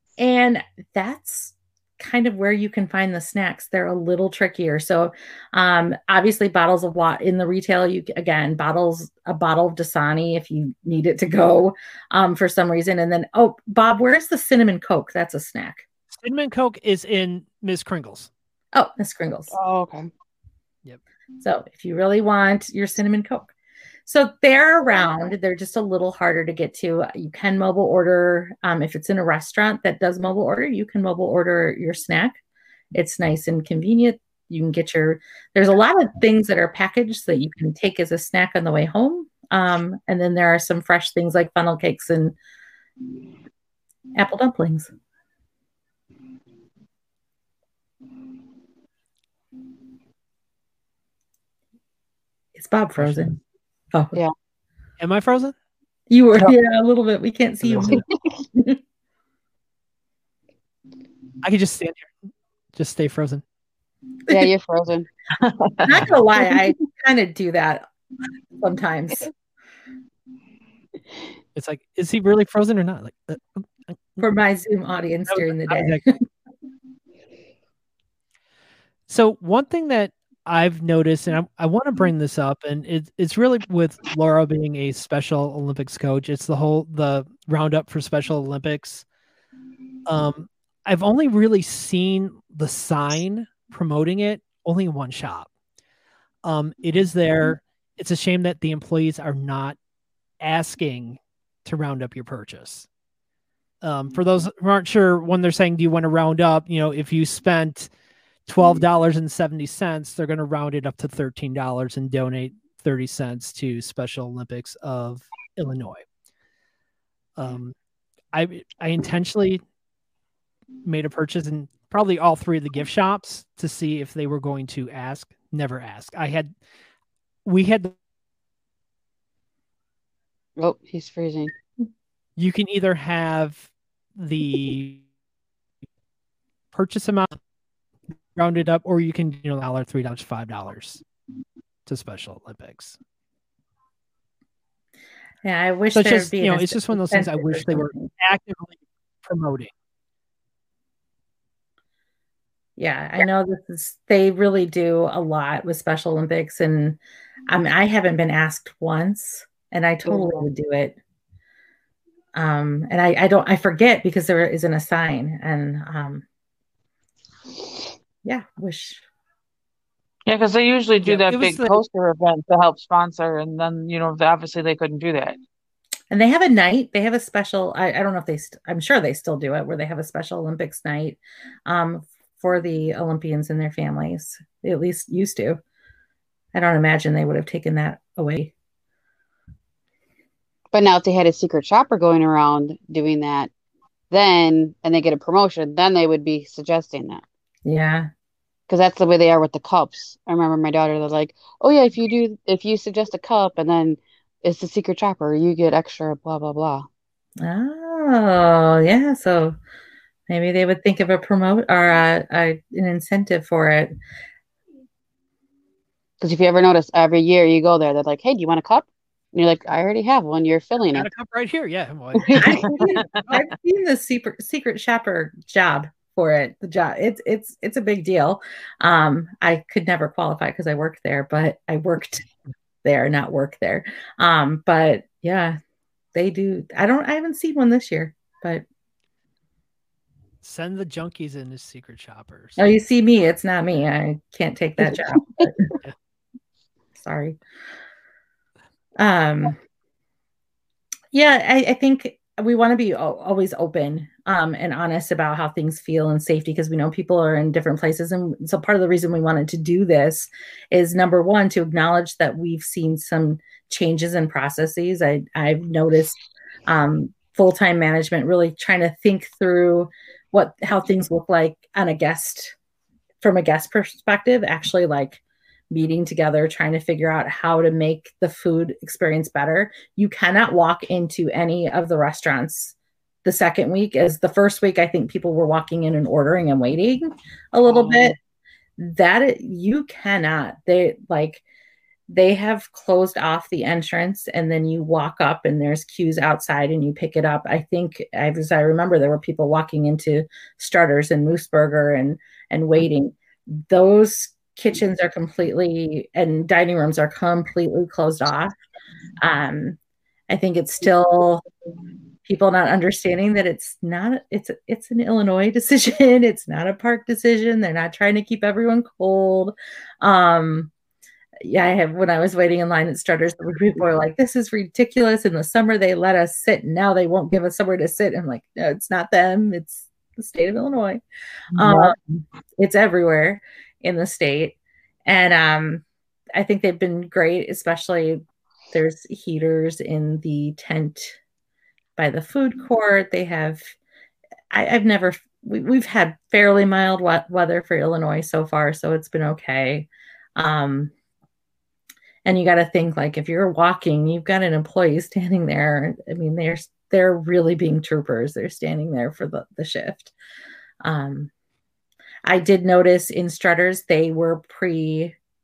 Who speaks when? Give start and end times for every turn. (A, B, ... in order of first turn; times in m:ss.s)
0:00.2-0:15.8 A
0:16.1-0:18.3 B
0:18.7-0:19.5 A
0:19.5-0:20.1 C
0:21.4-0:23.5 A
0:24.0-0:32.4 A
0:32.9-0:42.4 A
0:44.1-0:44.9 A
0:52.5-0:53.4 A
0:53.0-0:53.4 B
0:53.9-0:54.2 A
0:55.0-0:55.5 B
0:56.1-0:58.0 A
0:57.6-0:58.0 B
1:01.4-1:02.1 B
1:02.7-1:03.4 B
1:04.3-1:05.1 C
1:05.4-1:05.9 D
1:05.8-1:07.8 A
1:08.6-1:09.3 A
1:11.5-1:14.3 B
1:14.2-1:16.2 A
1:15.3-1:16.0 B
1:19.1-1:29.0 B
1:30.0-1:35.5 B
1:36.4-1:39.8 B
1:40.4-1:42.9 B
1:43.8-1:47.9 B
1:48.4-1:56.0 B
1:57.4-1:57.8 B
1:58.3-1:59.6 B
2:00.8-2:06.5 B
2:07.4-2:07.9 B
2:10.6-2:11.5 C
2:12.4-2:15.0 B
2:16.7-2:17.4 B
2:18.4-2:21.0 B
2:21.8-2:23.0 B
2:25.4-2:28.1 A
2:25.9-2:29.7 B
2:32.8-2:41.0 A
2:40.1-2:40.4 C
2:42.3-2:46.2 A
2:48.2-2:49.0 A
2:50.3-2:55.4 D
2:51.0-2:51.8 B
2:56.1-3:05.6 A
3:06.5-3:08.5 A
3:10.7-3:13.5 C
3:14.1-3:17.2 C
3:17.6-3:18.1 A
3:18.7-3:26.9 C
3:27.4-3:29.6 A
3:30.3-3:33.9 A
3:36.2-3:41.1 C
3:40.9-3:42.9 B
3:42.4-3:52.2 A
3:52.8-3:55.6 A
3:56.1-3:58.6 A
4:00.4-4:02.6 B
4:02.6-4:05.7 A
4:07.0-4:07.4 A
4:09.0-4:09.6 A
4:11.1-4:32.5 A
4:33.2-4:48.2 A
4:48.8-4:51.4 A
4:52.1-5:08.5 A
5:09.2-5:09.8 A
5:10.3-5:11.4 A
5:12.2-5:20.7 A
5:21.4-5:31.0 A
5:31.5-5:32.0 A
5:32.6-5:41.2 A
5:42.0-5:43.8 A
5:44.5-5:50.9 A
5:52.2-6:00.1 A
6:00.8-6:01.3 A
6:02.2-6:05.2 A